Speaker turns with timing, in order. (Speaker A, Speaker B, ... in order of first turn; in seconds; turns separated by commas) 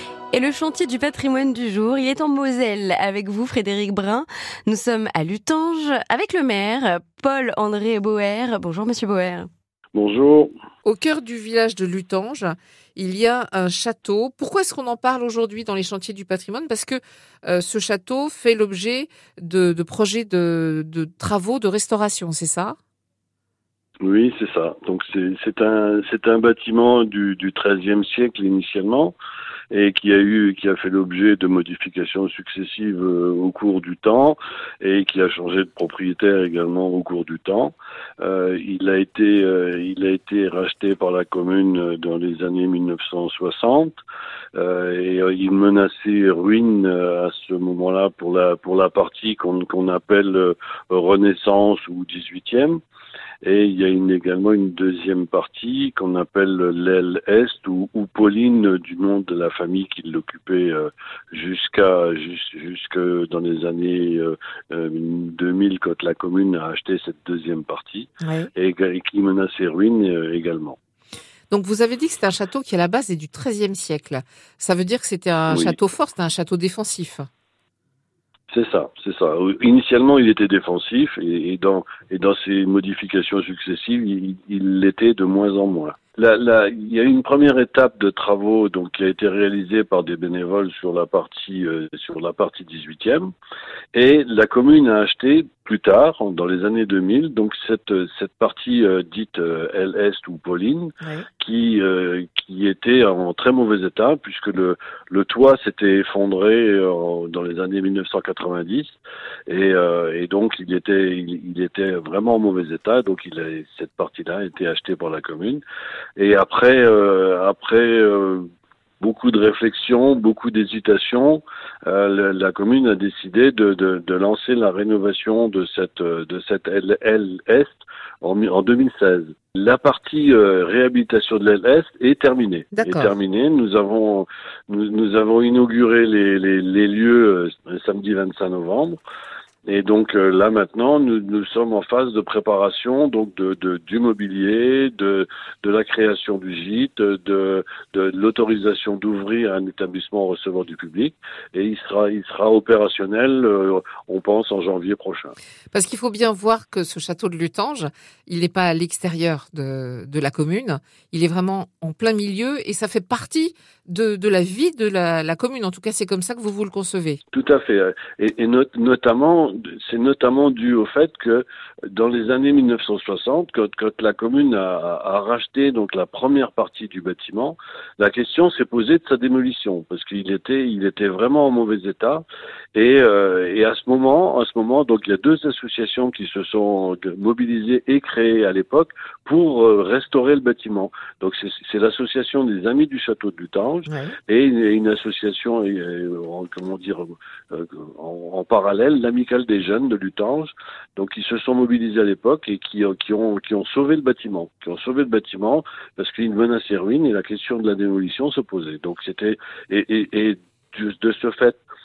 Speaker A: 0.3-9.5, Speaker B: 9.9-10.5, Speaker C: 10.8-22.8, Speaker B: 24.0-29.1, Speaker B: 29.7-44.0, Speaker B: 44.5-52.8, Speaker B: 53.4-70.8, Speaker C: 68.2-68.5, Speaker C: 71.5-77.3, Speaker B: 75.5-75.8, Speaker B: 78.5-93.3, Speaker B: 93.9-109.0, Speaker B: 109.5-115.6, Speaker B: 116.2-118.5, Speaker B: 119.0-139.0, Speaker C: 132.7-133.1, Speaker B: 139.7-155.3, Speaker C: 155.7-167.2, Speaker B: 167.3-211.6, Speaker C: 193.9-194.1